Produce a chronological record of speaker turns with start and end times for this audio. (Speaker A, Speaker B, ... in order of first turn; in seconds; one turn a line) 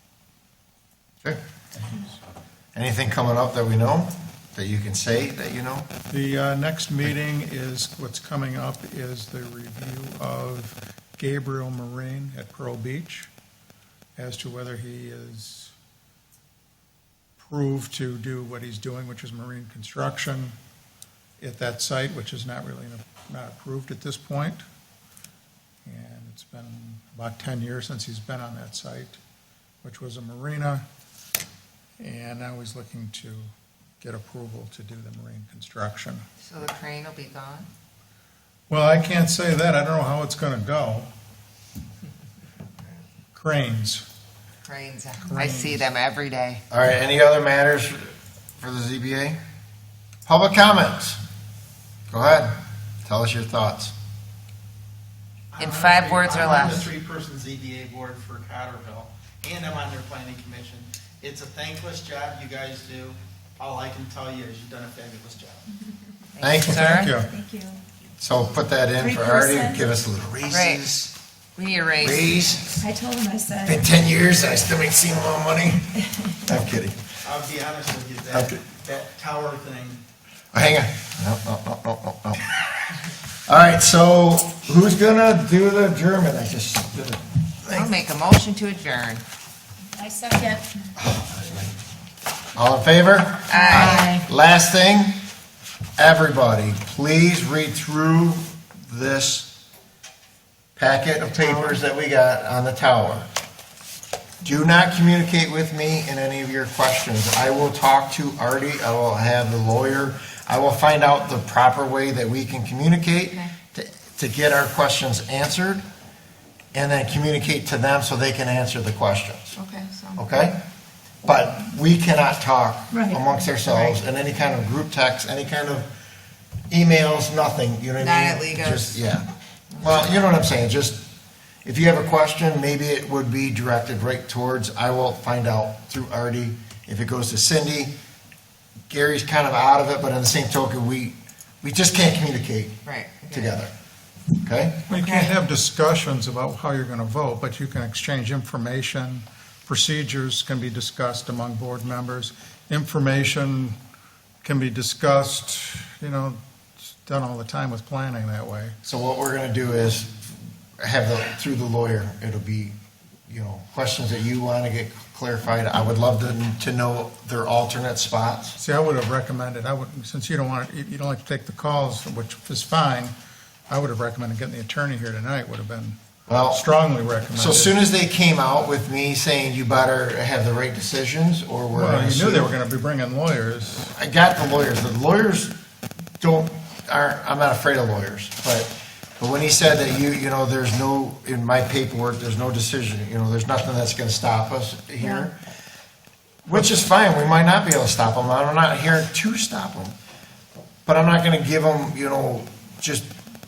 Speaker A: 2.7-5.9
Speaker B: 6.1-13.3
Speaker B: 14.2-15.7
Speaker B: 17.4-20.6
Speaker B: 21.4-24.6
Speaker B: 25.9-29.2
Speaker B: 29.8-30.8
Speaker B: 32.0-36.2
Speaker C: 36.4-37.7
Speaker B: 38.7-41.1
Speaker B: 43.3-44.0
Speaker C: 44.6-46.6
Speaker B: 45.2-45.9
Speaker A: 46.7-49.4
Speaker A: 50.3-51.2
Speaker A: 52.1-52.5
Speaker A: 53.0-53.9
Speaker D: 55.5-65.7
Speaker C: 55.6-56.9
Speaker C: 66.4-67.2
Speaker A: 66.4-66.8
Speaker B: 66.7-67.3
Speaker E: 67.3-67.8
Speaker A: 68.2-71.1
Speaker E: 69.0-69.8
Speaker C: 70.5-70.8
Speaker C: 71.6-72.3
Speaker A: 72.0-72.8
Speaker E: 72.8-73.8
Speaker A: 73.6-77.0
Speaker D: 77.2-80.0
Speaker A: 80.5-82.4
Speaker A: 83.5-87.9
Speaker C: 87.7-89.2
Speaker E: 90.0-90.6
Speaker A: 91.1-91.6
Speaker A: 92.5-95.2
Speaker C: 93.5-94.2
Speaker E: 93.8-94.2
Speaker A: 96.0-99.5
Speaker A: 100.8-103.3
Speaker C: 101.3-101.8
Speaker A: 104.4-115.8
Speaker A: 116.7-119.5
Speaker C: 119.6-120.2
Speaker A: 120.2-120.6
Speaker A: 121.2-125.9
Speaker A: 126.7-129.2
Speaker C: 128.0-129.0
Speaker A: 129.8-131.1
Speaker A: 131.6-137.9
Speaker A: 138.9-142.8
Speaker C: 142.9-143.6
Speaker A: 143.3-143.7
Speaker A: 144.4-144.8
Speaker B: 144.9-153.8
Speaker C: 144.9-145.4
Speaker B: 154.4-158.8
Speaker A: 158.8-162.8
Speaker A: 163.3-168.6
Speaker B: 168.6-173.1
Speaker B: 173.7-177.8
Speaker A: 176.3-176.6
Speaker A: 177.4-182.5
Speaker B: 181.7-183.9
Speaker A: 183.9-185.5
Speaker A: 186.2-195.4
Speaker A: 196.5-199.9
Speaker B: 196.5-196.8
Speaker A: 200.9-203.1